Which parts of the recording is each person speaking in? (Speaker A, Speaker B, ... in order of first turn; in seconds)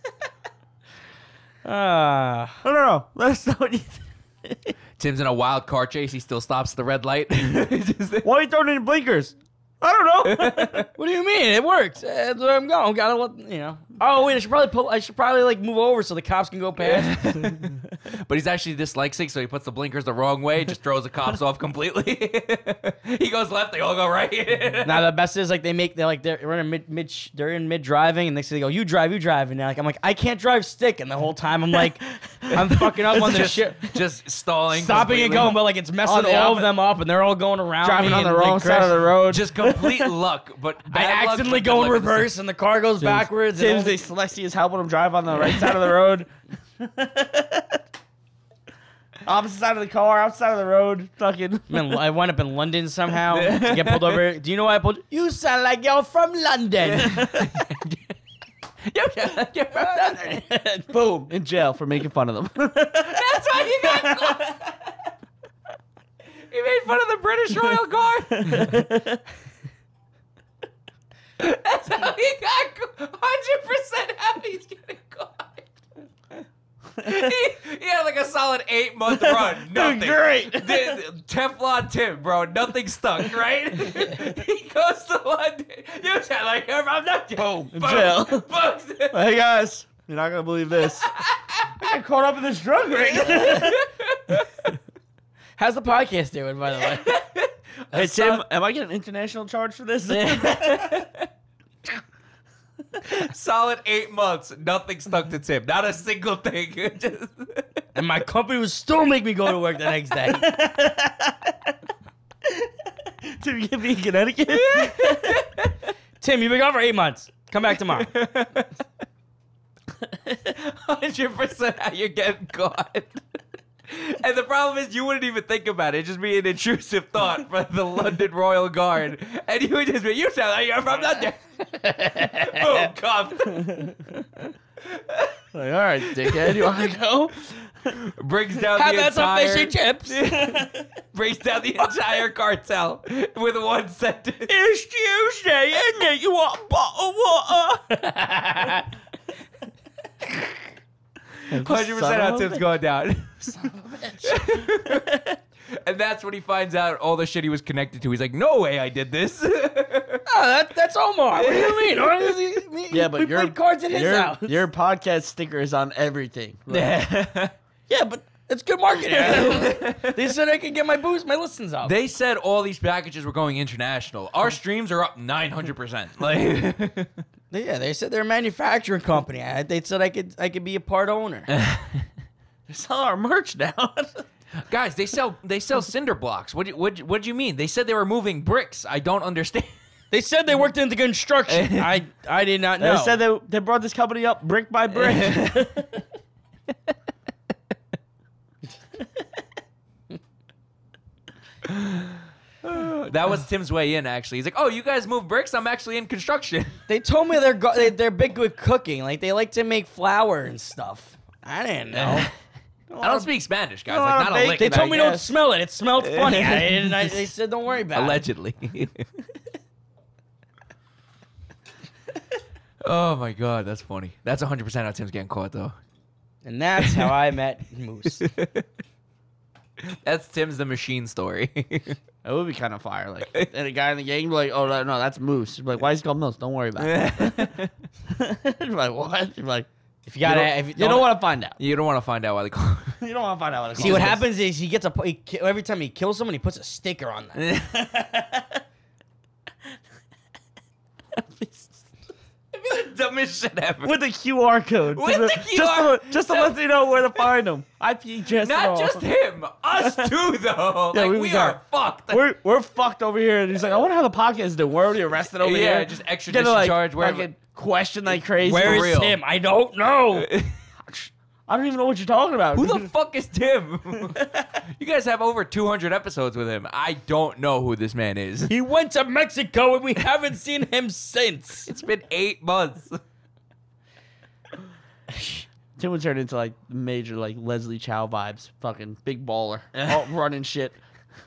Speaker A: 1.6-2.6, 10.9-17.6, 24.8-33.9, 34.7-39.0, 40.9-43.9, 51.7-57.6, 59.7-60.9, 95.6-97.2, 108.0-110.5, 116.2-118.1, 138.8-140.3, 148.5-148.9, 160.3-164.6, 167.9-171.9, 177.5-181.5, 190.1-193.2, 206.9-212.3, 214.6-218.2, 226.4-228.3, 240.1-241.1, 243.8-247.5, 268.4-270.3, 278.5-281.7, 285.2-285.4
Speaker B: 2.6-4.7, 8.2-10.9, 36.0-36.7, 37.8-40.1, 43.0-47.8, 49.2-52.0, 60.9-64.6, 68.4-69.0, 79.1-81.0, 87.4-88.5, 89.1-91.1, 91.8-93.8, 97.9-101.0, 110.2-111.5, 113.2-115.4, 135.5-137.9, 140.4-140.7, 144.5-148.8, 151.5-152.6, 153.5-154.7, 162.9-167.0, 169.1-169.5, 182.7-184.2, 192.8-195.9, 212.9-213.3, 213.9-215.3, 232.2-237.6, 238.1-239.7, 240.3-241.6, 243.0-244.2, 247.7-248.6, 251.2-251.8, 253.8-259.1, 259.8-260.1, 260.9-269.0, 270.9-272.9, 274.0-274.5, 285.8-290.8
Speaker C: 5.0-8.3, 10.2-10.9, 16.8-25.1, 33.1-35.6, 39.3-42.3, 53.3-54.3, 56.9-58.0, 58.9-60.4, 63.1-64.6, 66.5-68.8, 71.4-75.7, 77.0-89.2, 91.0-91.9, 93.1-94.5, 96.8-98.4, 100.3-101.3, 103.0-107.7, 114.5-115.9, 117.9-118.7, 120.3-123.2, 123.9-134.0, 134.8-135.4, 136.1-136.9, 137.9-144.5, 151.5-153.6, 154.2-160.2, 161.4-162.4, 166.7-167.6, 169.2-170.3, 171.8-177.2, 181.5-182.1, 184.6-189.8, 191.5-192.0, 194.9-195.8, 201.7-206.8, 211.9-212.3, 213.0-215.0, 216.0-217.1, 217.9-219.1, 222.8-225.8, 226.8-227.2, 228.1-228.7, 229.8-232.0, 236.8-237.7, 241.6-243.0, 243.8-244.2, 247.3-247.8, 252.5-254.0, 254.9-256.6, 258.4-262.2, 265.4-267.3, 268.4-269.2, 270.1-270.6, 272.5-278.5, 281.7-283.0